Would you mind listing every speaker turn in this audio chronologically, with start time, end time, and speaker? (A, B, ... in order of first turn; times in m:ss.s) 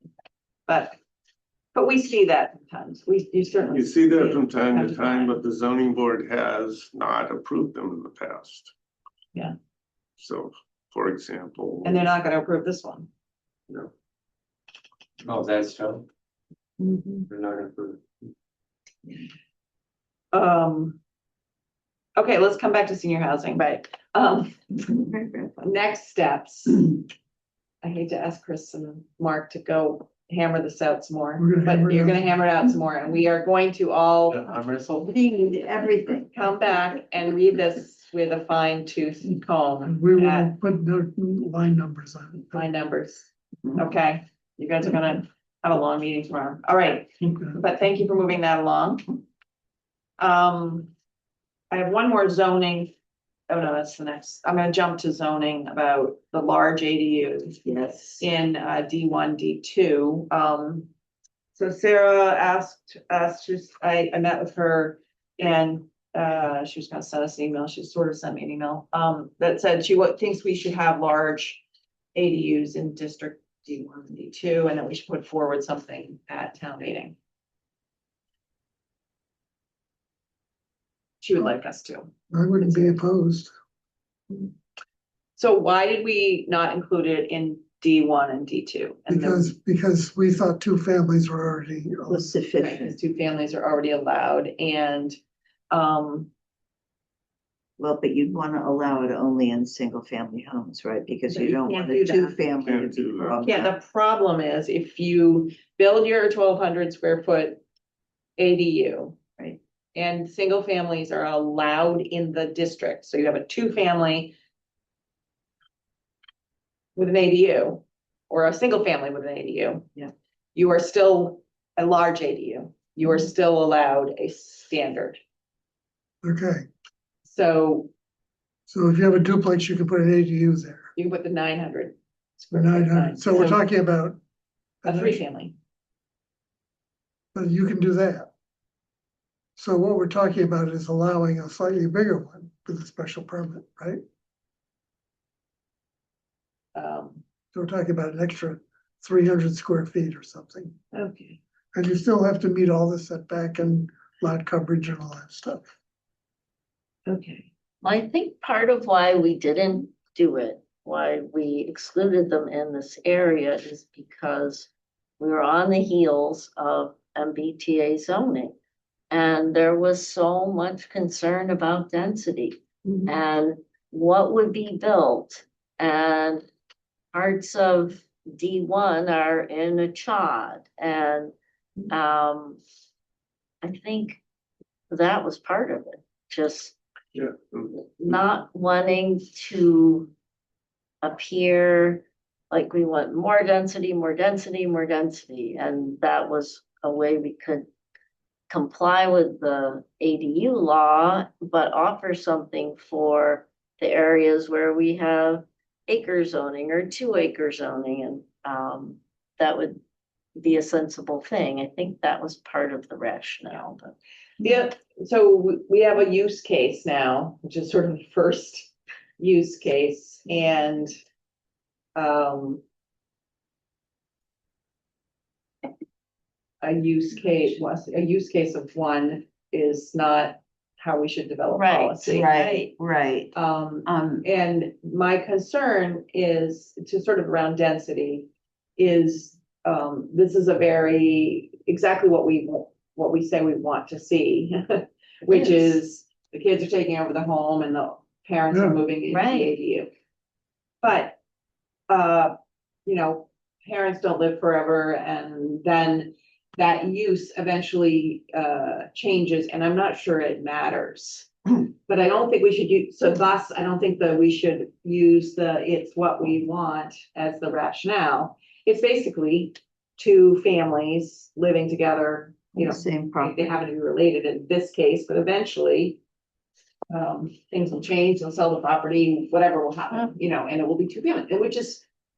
0:00.7-0:00.9 A
0:01.7-0:05.3 A
0:03.7-0:08.7 B
0:10.2-0:12.1 B
0:11.8-0:13.1 A
0:15.2-0:16.0 C
0:16.9-0:17.2 D
0:17.3-0:18.3 C
0:20.3-0:21.0 A
0:22.2-0:24.6 A
0:24.8-0:25.5 D
0:25.6-0:26.9 A
0:27.8-0:34.4 A
0:31.4-0:32.2 E
0:34.3-0:35.1 C
0:35.0-0:36.3 D
0:36.3-0:40.5 A
0:39.8-0:42.6 E
0:42.5-0:49.2 A
0:47.3-0:47.6 E
0:50.2-0:50.9 A
0:51.7-0:52.9 A
0:53.5-0:57.6 A
0:57.6-0:58.2 D
0:58.2-1:00.9 A
1:01.5-1:11.6 A
1:12.1-1:17.1 A
1:21.2-1:23.0 A
1:22.3-1:23.5 E
1:25.4-1:29.5 A
1:29.1-1:32.3 E
1:32.1-1:32.9 D
1:32.6-1:35.2 A
1:35.7-1:36.3 A
1:37.8-1:43.7 D
1:41.3-1:42.4 A
1:42.6-1:43.5 B
1:43.4-1:47.6 A
1:48.4-1:49.2 A
1:49.9-1:54.3 A
1:57.0-2:05.2 A
2:06.2-2:06.6 E
2:07.2-2:07.9 A
2:08.7-2:10.9 E
2:11.0-2:13.6 A
2:12.5-2:14.2 E
2:14.8-2:15.2 E
2:14.8-2:15.5 A
2:17.3-2:18.3 E
2:19.6-2:24.0 E
2:26.7-2:27.2 A
2:27.5-2:30.8 E
2:30.9-2:31.4 A
2:31.7-2:35.7 E
2:37.0-2:37.5 A
2:37.8-2:48.5 F
2:49.1-2:56.4 F
2:57.1-3:01.3 F
3:01.9-3:02.6 F
3:03.6-3:04.2 F
3:04.9-3:06.7 F
3:07.1-3:07.7 B
3:08.0-3:10.1 F
3:11.0-3:17.6 F
3:18.5-3:29.8 F
3:30.4-3:34.0 F
3:34.4-3:40.9 A
3:42.0-3:42.6 A
3:46.6-3:52.6 A
3:51.5-3:52.4 F
3:52.0-3:53.3 D
3:53.3-4:09.9 A
3:53.8-3:54.2 D
4:05.3-4:05.8 F
4:08.5-4:08.8 E
4:09.1-4:09.5 F
4:10.8-4:11.2 A
4:11.9-4:12.3 A
4:12.8-4:36.0 A
4:32.5-4:33.4 D
4:36.9-4:41.8 A